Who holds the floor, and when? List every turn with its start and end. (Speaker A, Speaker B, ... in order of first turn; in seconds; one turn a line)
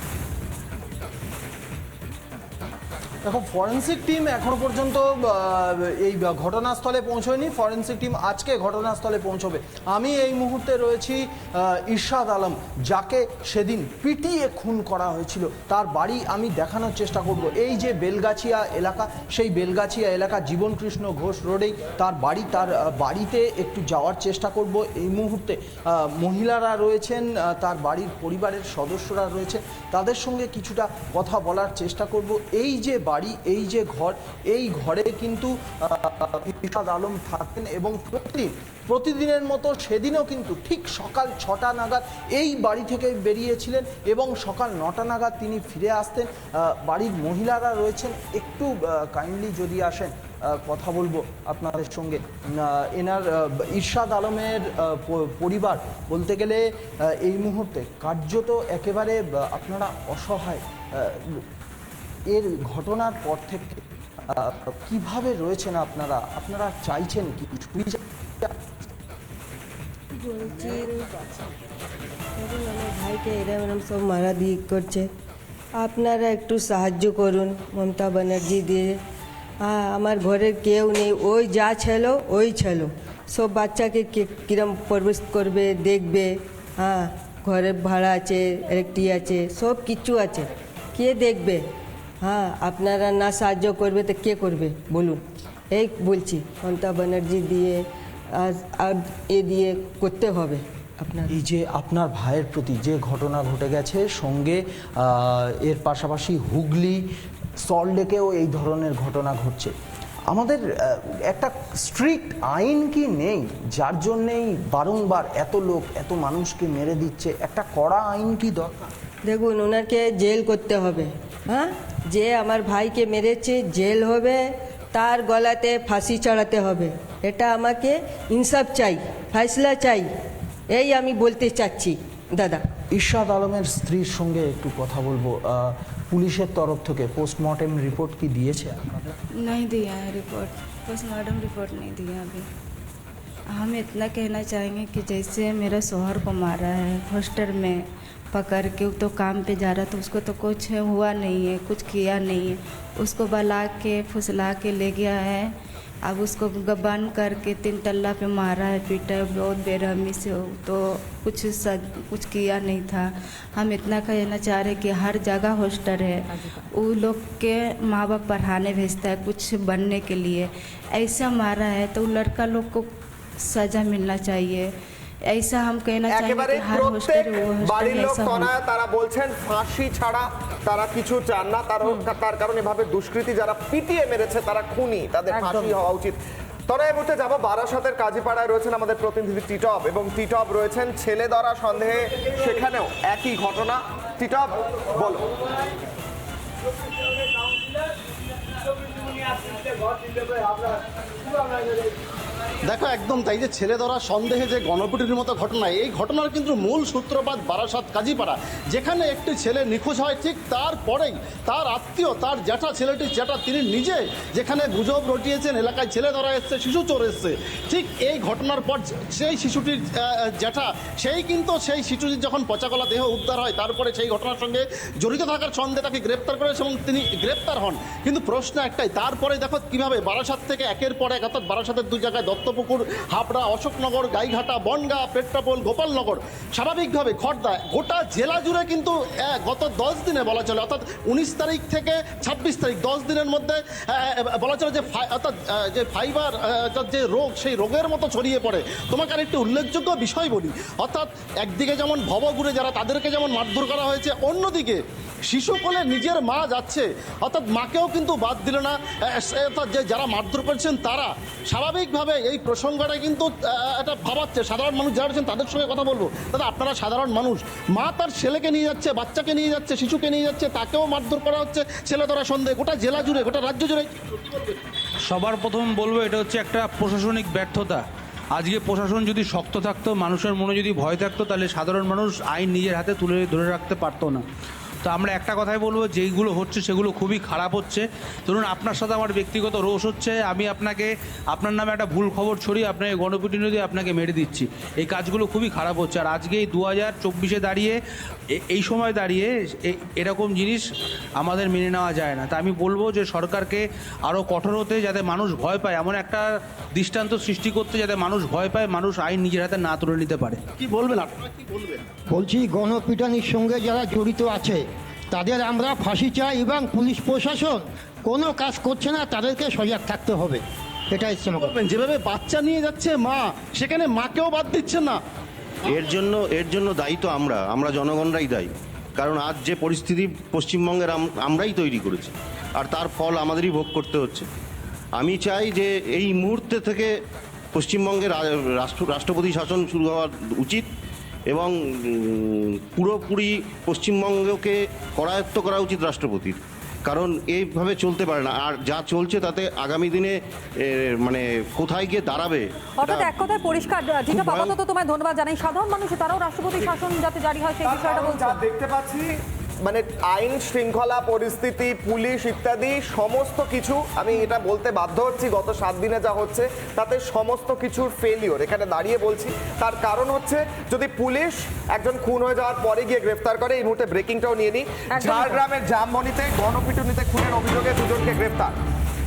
Speaker A: 3.2-61.4
Speaker A: 62.3-68.5
Speaker B: 70.2-71.0
Speaker A: 70.6-70.9
Speaker B: 72.4-75.1
Speaker B: 75.8-78.9
Speaker B: 79.6-91.6
Speaker B: 92.2-95.2
Speaker B: 95.7-97.8
Speaker B: 98.4-101.3
Speaker A: 101.3-107.0
Speaker A: 107.6-109.7
Speaker A: 110.3-118.9
Speaker B: 119.3-124.4
Speaker B: 124.9-130.1
Speaker B: 130.7-132.6
Speaker A: 132.9-139.1
Speaker C: 139.4-142.5
Speaker C: 143.5-155.5
Speaker C: 156.1-172.9
Speaker D: 166.3-166.6
Speaker C: 173.4-174.7
Speaker C: 175.3-178.5
Speaker E: 176.1-195.3
Speaker D: 181.8-182.1
Speaker D: 185.3-185.8
Speaker F: 202.6-254.8
Speaker F: 255.3-274.6
Speaker G: 275.1-277.8
Speaker G: 278.3-284.2
Speaker G: 284.8-297.8
Speaker G: 298.4-300.6
Speaker G: 301.2-310.4
Speaker F: 310.6-311.9
Speaker H: 312.1-321.5
Speaker F: 321.4-325.0
Speaker F: 325.6-326.0
Speaker I: 325.7-334.3
Speaker I: 335.0-336.9
Speaker I: 337.5-340.6
Speaker I: 341.3-350.1
Speaker I: 350.7-353.1
Speaker D: 352.8-358.4
Speaker I: 354.1-354.5
Speaker E: 357.6-359.1
Speaker E: 359.6-378.5
Speaker D: 374.9-375.4